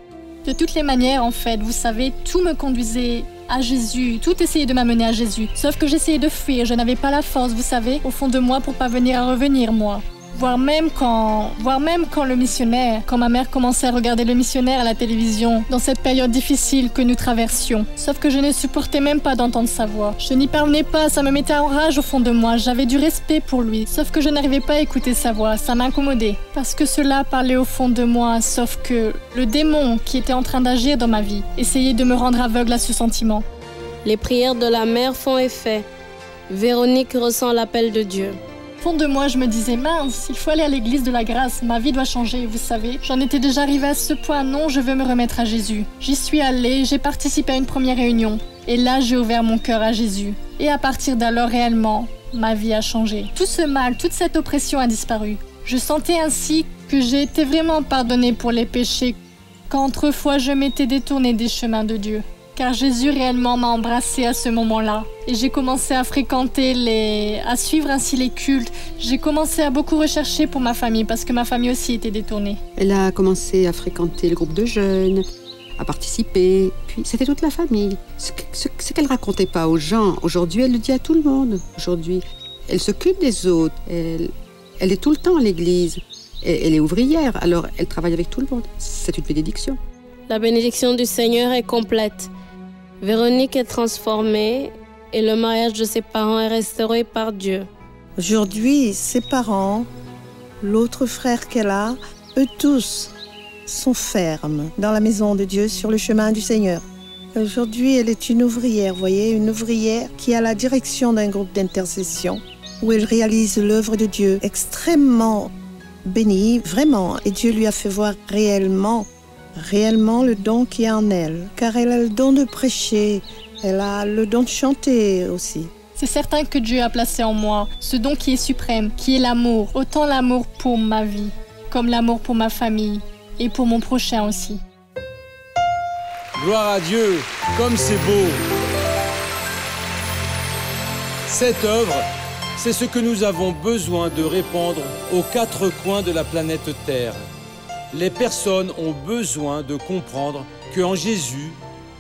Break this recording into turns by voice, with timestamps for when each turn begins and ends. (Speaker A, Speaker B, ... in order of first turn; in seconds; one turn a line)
Speaker A: 0.4-33.4
Speaker B: 34.0-35.8
Speaker B: 36.5-38.4
Speaker A: 38.8-59.2
Speaker A: 59.7-72.6
Speaker C: 72.8-75.2
Speaker C: 75.8-89.8
Speaker B: 90.3-92.3
Speaker B: 93.0-97.7
Speaker D: 98.2-99.9
Speaker D: 100.6-103.1
Speaker D: 103.7-115.5
Speaker D: 116.0-125.7
Speaker A: 126.0-134.6
Speaker E: 136.4-138.4
Speaker E: 141.2-142.0
Speaker E: 142.6-147.2
Speaker E: 147.9-151.6